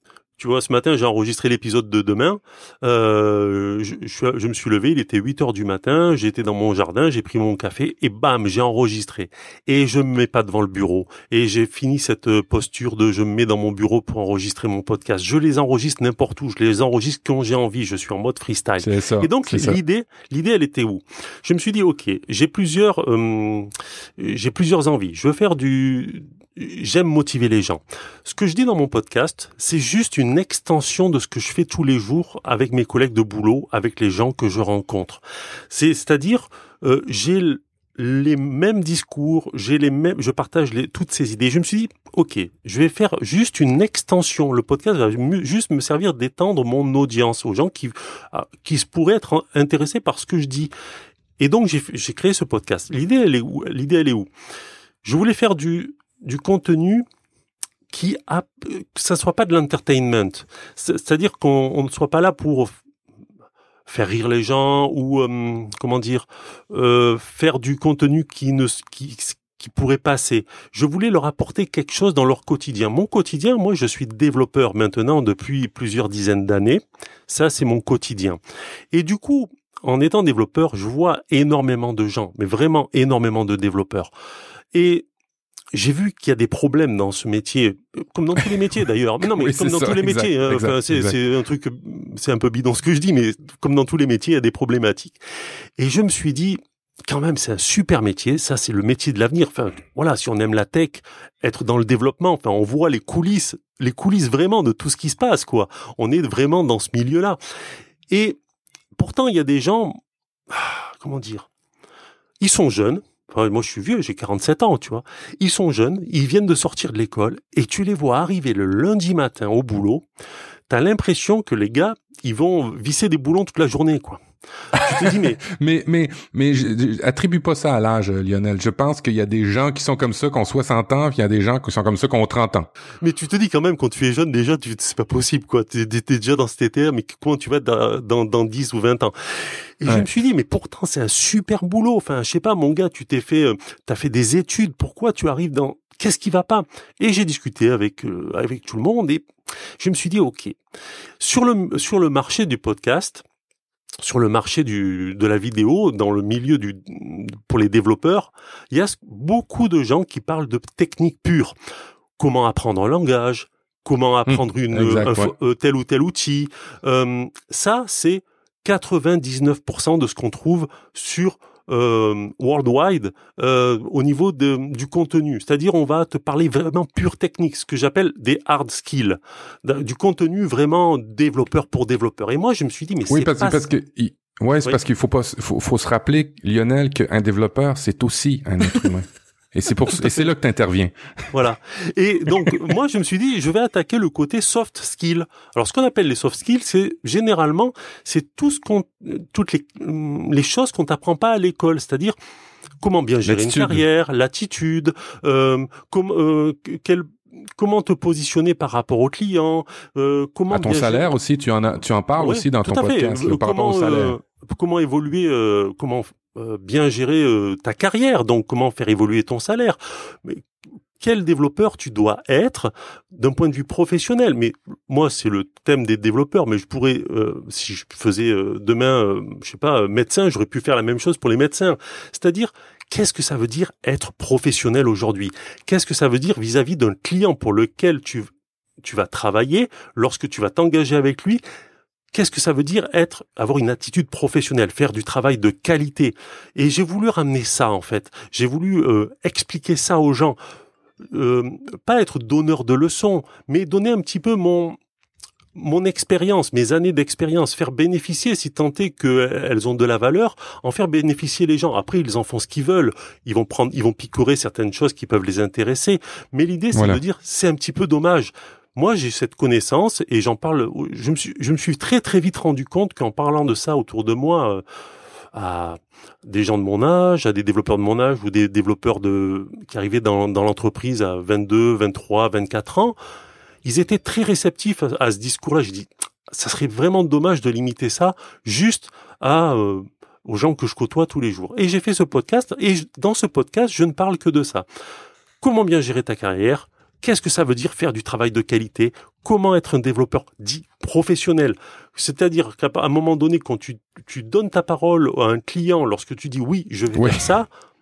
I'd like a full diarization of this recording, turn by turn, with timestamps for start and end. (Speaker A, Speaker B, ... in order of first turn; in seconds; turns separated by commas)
Speaker A: 0.4-50.7, Speaker B: 18.8-19.8, Speaker A: 51.4-54.3, Speaker A: 55.0-57.0, Speaker A: 57.9-62.8, Speaker A: 63.9-78.4, Speaker A: 78.9-84.1, Speaker A: 84.7-85.0, Speaker A: 85.7-95.2, Speaker B: 89.2-91.2, Speaker A: 95.8-107.4, Speaker A: 108.1-108.4, Speaker A: 109.0-110.0, Speaker A: 110.5-111.5, Speaker A: 112.4-120.0, Speaker A: 120.7-125.4, Speaker B: 124.9-132.7, Speaker A: 133.0-149.2, Speaker A: 149.8-150.6, Speaker A: 151.2-153.2, Speaker A: 154.0-161.5, Speaker A: 162.2-183.6, Speaker B: 164.3-165.3, Speaker B: 183.1-190.9, Speaker A: 191.3-202.2, Speaker A: 202.8-211.1, Speaker B: 203.2-203.8, Speaker B: 210.5-214.1, Speaker A: 212.2-220.4, Speaker A: 221.0-238.3, Speaker A: 238.8-241.4, Speaker A: 242.1-250.4, Speaker A: 251.1-254.8, Speaker A: 255.5-274.6, Speaker B: 266.7-267.0, Speaker A: 275.3-282.9, Speaker A: 283.6-294.6, Speaker A: 295.4-307.5, Speaker B: 306.9-307.2